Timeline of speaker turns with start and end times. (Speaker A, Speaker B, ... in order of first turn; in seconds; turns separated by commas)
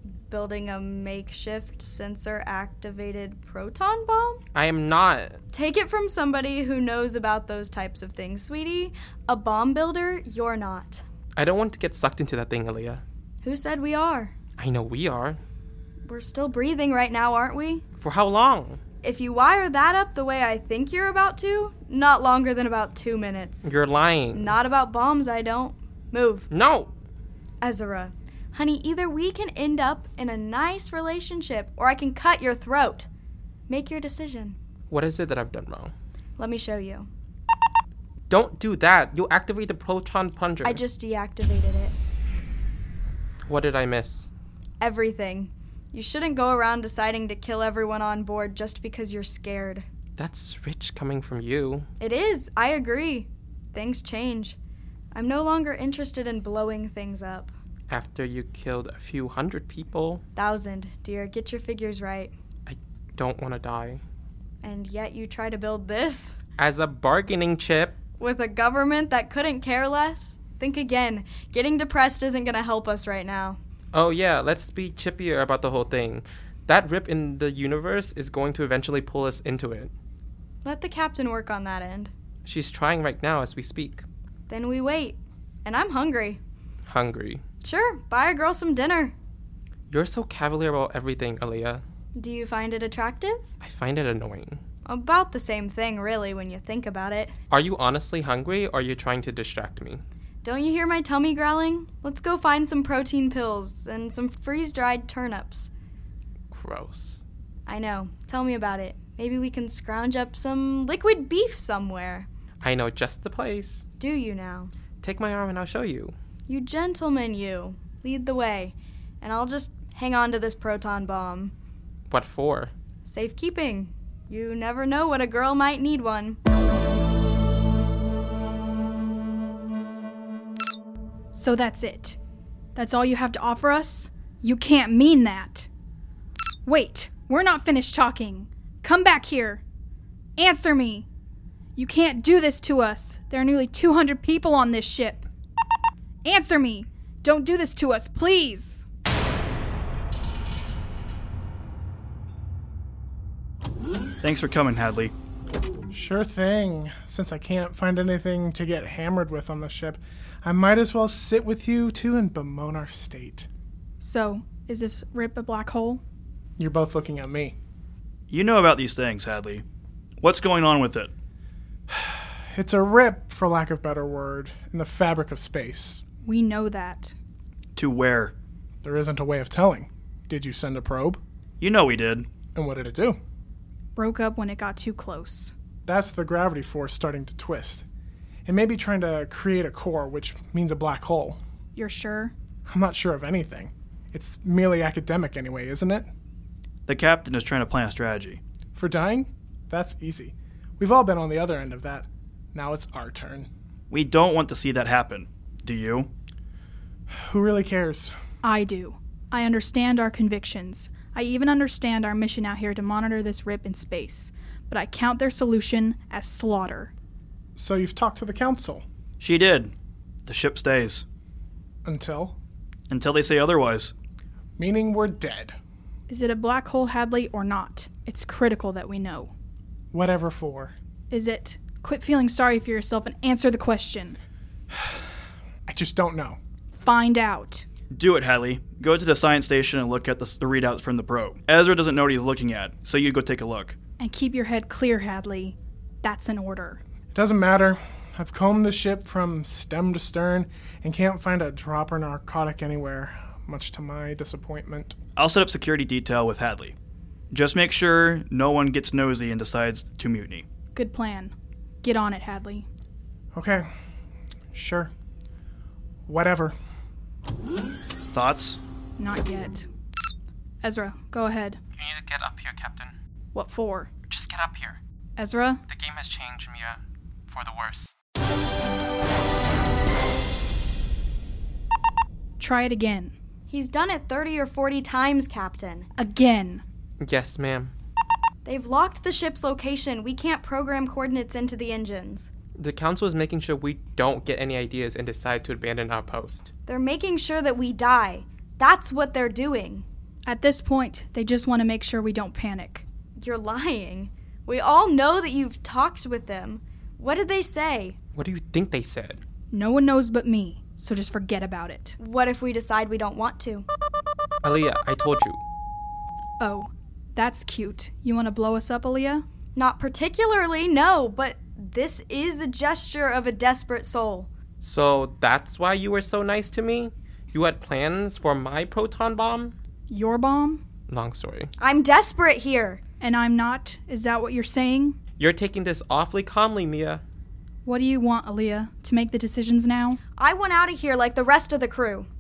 Speaker A: 0.1-4.4, Speaker B: 4.5-5.4, Speaker A: 5.5-11.1, Speaker B: 11.4-13.0, Speaker A: 13.4-14.3, Speaker B: 14.6-15.4, Speaker A: 16.1-17.8, Speaker B: 18.0-18.8, Speaker A: 19.0-23.7, Speaker B: 23.6-24.6, Speaker A: 24.3-26.5, Speaker B: 26.5-26.9, Speaker A: 27.6-33.1, Speaker A: 33.7-34.6, Speaker B: 34.9-35.9, Speaker A: 36.4-37.1, Speaker B: 38.3-40.8, Speaker A: 40.6-42.0, Speaker B: 43.5-44.3, Speaker A: 44.8-49.9, Speaker B: 50.2-51.9, Speaker A: 52.0-54.6, Speaker A: 55.1-57.5, Speaker B: 57.9-60.2, Speaker A: 60.4-62.3, Speaker B: 62.7-64.0, Speaker A: 64.6-66.4, Speaker B: 66.6-68.0, Speaker A: 68.2-73.6, Speaker B: 73.9-79.9, Speaker A: 80.6-82.1, Speaker B: 82.5-84.0, Speaker A: 84.5-86.4, Speaker B: 86.9-87.4, Speaker A: 87.6-89.1, Speaker B: 89.9-91.8, Speaker A: 92.2-93.5, Speaker B: 93.6-94.6, Speaker A: 94.9-97.3, Speaker B: 97.5-100.0, Speaker A: 100.4-105.7, Speaker B: 106.5-107.2, Speaker A: 107.7-112.3, Speaker B: 112.6-113.9, Speaker A: 114.0-114.7, Speaker B: 115.0-116.2, Speaker A: 116.5-121.5, Speaker B: 122.1-122.7, Speaker A: 123.1-126.4, Speaker C: 131.3-132.2, Speaker C: 132.8-135.7, Speaker C: 136.7-139.6, Speaker C: 140.4-141.1, Speaker C: 141.8-145.3, Speaker C: 146.2-148.8, Speaker D: 154.2-155.1, Speaker E: 155.9-163.5, Speaker C: 164.0-166.0, Speaker E: 166.6-167.6, Speaker D: 168.3-169.6, Speaker D: 170.2-171.1, Speaker E: 171.9-176.0, Speaker C: 176.2-177.2, Speaker D: 177.8-178.3, Speaker E: 178.8-181.2, Speaker D: 181.6-182.3, Speaker E: 182.6-183.2, Speaker C: 184.0-185.5, Speaker E: 185.9-187.9, Speaker E: 188.5-191.4, Speaker C: 191.8-192.3, Speaker E: 192.7-196.1, Speaker D: 196.9-198.4, Speaker E: 198.8-203.5, Speaker D: 203.9-206.1, Speaker E: 207.1-208.2, Speaker C: 208.4-216.9, Speaker E: 217.6-218.8, Speaker D: 219.2-219.7, Speaker D: 220.3-221.1, Speaker E: 221.8-222.4, Speaker D: 222.9-223.9, Speaker E: 224.6-225.6, Speaker C: 226.1-229.3, Speaker E: 229.9-230.7, Speaker C: 231.1-234.2, Speaker E: 235.7-236.4, Speaker C: 236.8-237.7, Speaker D: 237.9-243.8, Speaker C: 244.0-246.8, Speaker E: 247.1-255.0, Speaker D: 255.2-256.8, Speaker D: 257.3-260.5, Speaker C: 260.8-262.7, Speaker E: 263.3-263.7, Speaker E: 264.5-264.9, Speaker E: 266.1-266.6, Speaker D: 268.1-268.6, Speaker C: 269.0-269.7, Speaker C: 270.6-271.6, Speaker B: 271.8-272.9, Speaker C: 273.3-273.9, Speaker B: 274.1-274.8, Speaker C: 275.2-275.6, Speaker B: 275.7-277.9, Speaker C: 282.4-283.1, Speaker A: 283.5-285.9, Speaker C: 286.0-286.6, Speaker B: 287.0-287.7, Speaker A: 288.4-292.3, Speaker B: 292.6-296.5, Speaker A: 296.7-299.9, Speaker C: 300.3-302.9, Speaker A: 303.2-308.0, Speaker B: 308.1-309.2, Speaker C: 309.5-312.0, Speaker A: 312.0-313.7, Speaker B: 314.4-315.4, Speaker C: 316.4-319.2, Speaker A: 319.6-324.3, Speaker B: 324.6-329.6, Speaker C: 329.9-330.6, Speaker B: 330.9-331.5, Speaker A: 331.6-332.8, Speaker C: 333.0-335.0, Speaker B: 335.2-337.0, Speaker C: 337.6-340.0, Speaker A: 340.2-342.1